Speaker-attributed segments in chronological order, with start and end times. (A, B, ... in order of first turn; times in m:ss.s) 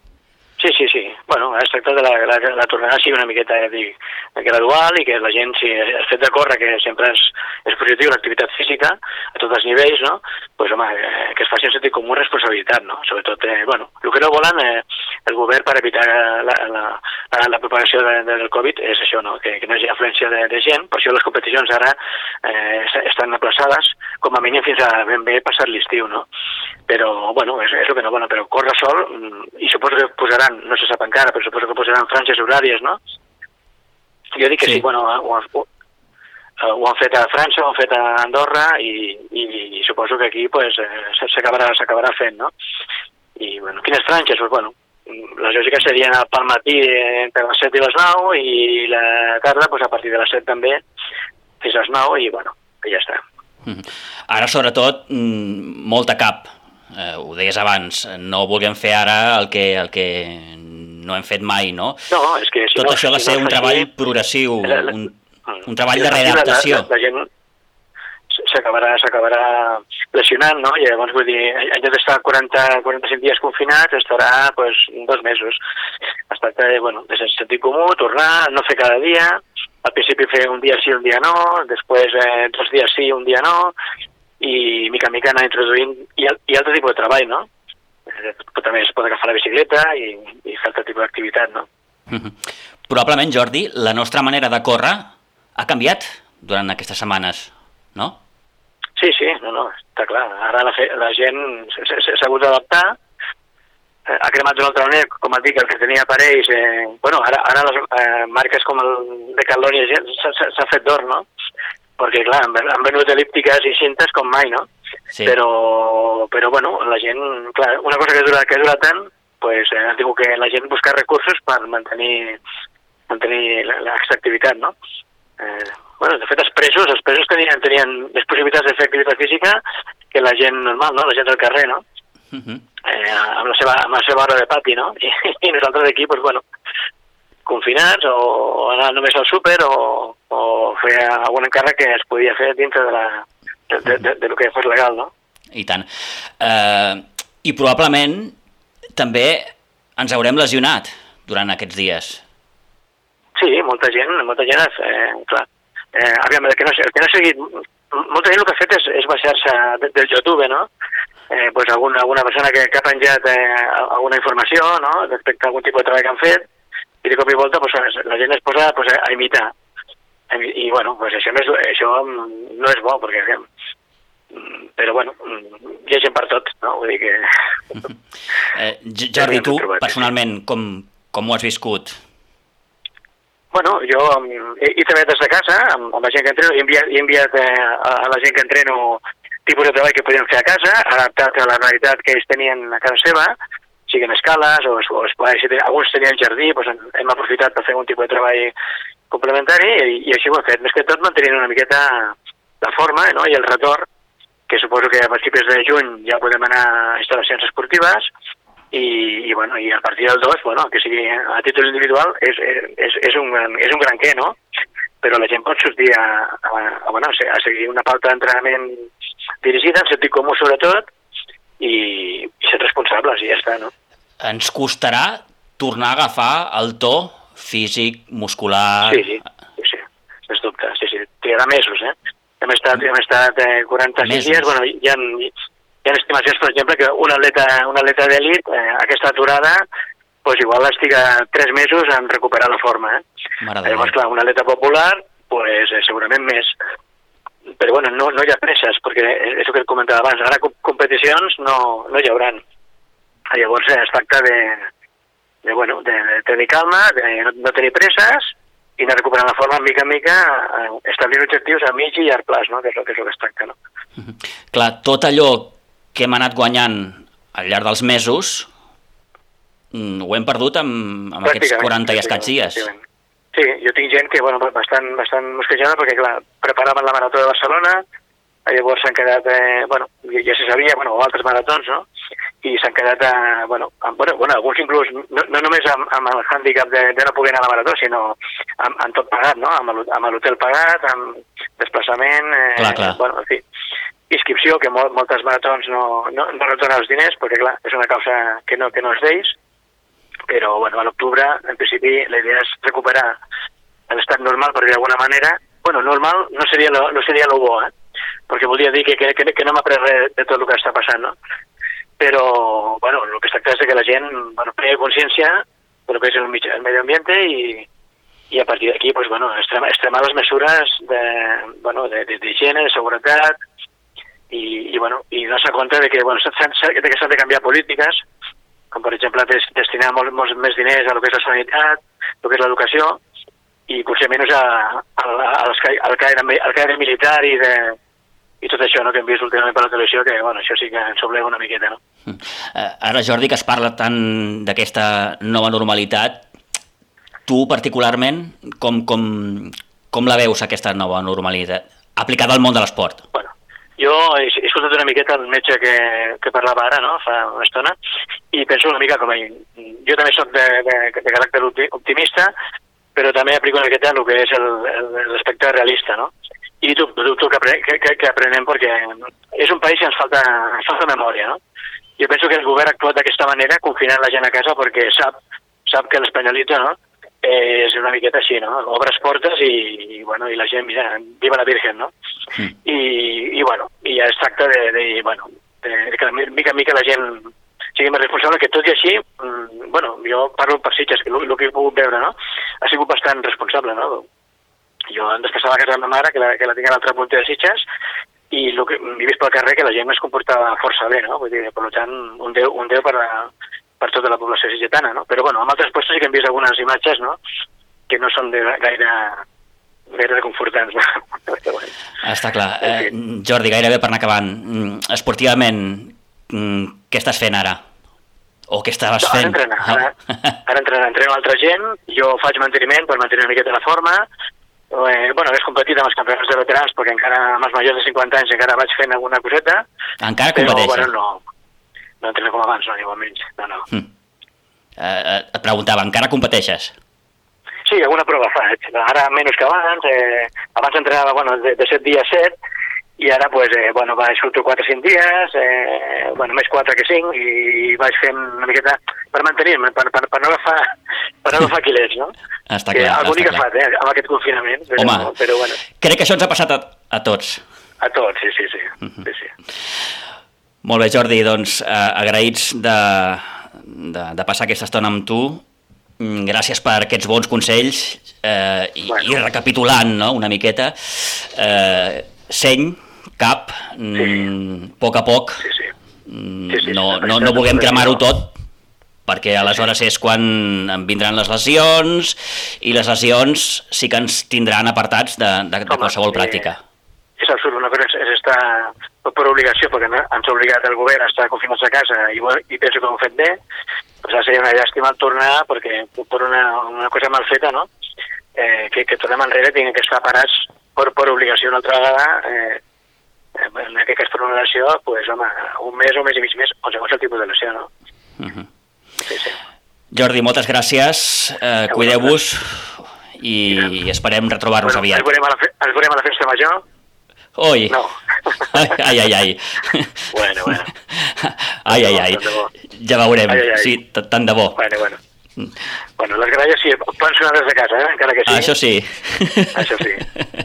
0:00.6-0:26.3 A
0:26.9-0:33.0 A
0:34.4-0:35.7 A
0:36.6-0:42.5 A
0:43.4-0:50.8 A
0:51.6-0:53.2 A
0:53.6-1:02.0 B
1:02.1-1:03.9 A
1:02.8-1:05.1 B
1:04.6-1:05.0 A
1:05.5-1:07.3 A
1:05.6-1:06.9 B
1:08.4-1:15.6 A
1:16.3-1:23.8 A
1:24.4-1:27.5 A
1:28.1-1:31.7 A
1:32.1-1:32.4 B
1:32.9-1:38.2 B
1:39.0-1:43.0 A
1:44.1-1:51.2 A
1:52.0-1:54.6 A
1:55.2-2:02.4 A
2:03.1-2:04.8 A
2:05.4-2:09.6 A
2:10.1-2:11.8 A
2:12.3-2:12.6 B
2:12.8-2:16.4 A
2:17.5-2:25.1 A
2:25.5-2:25.9 B
2:26.4-2:28.4 B
2:29.0-2:32.2 B
2:33.4-2:40.7 A
2:41.3-2:46.4 A
2:47.0-2:49.5 A
2:50.3-2:53.4 A
2:54.3-2:57.2 A
2:58.5-3:02.0 B
2:59.2-3:00.1 A
3:03.5-3:13.3 A
3:13.9-3:18.5 A
3:19.1-3:23.9 A
3:24.5-3:28.1 A
3:28.7-3:34.4 A
3:35.0-3:38.9 A
3:39.4-3:40.9 A
3:41.6-3:43.7 A
3:44.2-3:49.1 B
3:48.8-3:55.3 A
3:54.0-3:54.5 B
3:55.8-3:59.6 A
4:00.2-4:03.0 A
4:03.4-4:03.9 B
4:03.6-4:06.5 A
4:07.6-4:12.4 A
4:13.3-4:14.6 A
4:15.4-4:23.6 A
4:24.0-4:28.5 B
4:29.7-4:32.6 B
4:31.2-4:32.8 A
4:33.3-4:37.8 A
4:38.5-4:41.9 A
4:42.4-4:53.4 A
4:52.6-4:53.0 B
4:54.1-4:59.4 A
5:00.3-5:03.2 A
5:03.9-5:07.7 A
5:08.3-5:11.2 A
5:12.0-5:17.7 A
5:18.3-5:23.4 A
5:24.3-5:28.0 A
5:28.7-5:33.0 A
5:33.7-5:37.8 A
5:38.4-5:41.8 A
5:42.1-5:46.2 B
5:47.3-5:53.0 B
5:53.1-5:57.8 A
5:58.3-6:02.3 A
6:03.0-6:11.4 A
6:12.0-6:15.2 A
6:15.7-6:21.9 A
6:22.6-6:34.1 A
6:34.9-6:37.6 A
6:38.3-6:47.2 A
6:47.9-6:49.2 A
6:49.9-6:51.7 A
6:52.0-6:57.6 B
6:52.6-6:52.9 A
6:58.5-6:59.8 B
6:59.0-6:59.9 A
7:00.5-7:04.1 A
7:04.7-7:09.6 A
7:10.0-7:10.9 B
7:10.3-7:11.2 A
7:12.0-7:13.6 A
7:14.8-7:16.7 B
7:17.6-7:22.4 A
7:23.0-7:30.7 A
7:31.2-7:32.1 A
7:32.5-7:33.4 B
7:32.7-7:35.6 A
7:34.8-7:35.1 B
7:35.8-7:37.4 B
7:37.8-7:39.3 A
7:40.6-7:45.4 B
7:46.0-7:55.4 B
7:48.9-7:49.1 A
7:54.0-7:54.3 A
7:55.4-7:55.7 A
7:56.1-7:58.3 B
7:56.5-7:58.0 A
7:59.1-8:06.6 B
8:05.7-8:06.5 A
8:07.2-8:13.4 A
8:14.0-8:17.7 A
8:18.4-8:22.6 A
8:23.4-8:27.7 A
8:28.2-8:28.5 B
8:29.0-8:29.4 A
8:29.9-8:35.1 B
8:31.7-8:32.2 A
8:34.6-8:36.6 A
8:37.4-8:37.8 B
8:37.7-8:38.6 A
8:38.5-8:44.6 B
8:40.1-8:40.7 A
8:41.6-8:42.5 A
8:43.3-8:43.8 A
8:44.6-8:45.0 A
8:46.0-8:48.5 A
8:48.3-8:50.2 B
8:49.5-8:50.1 A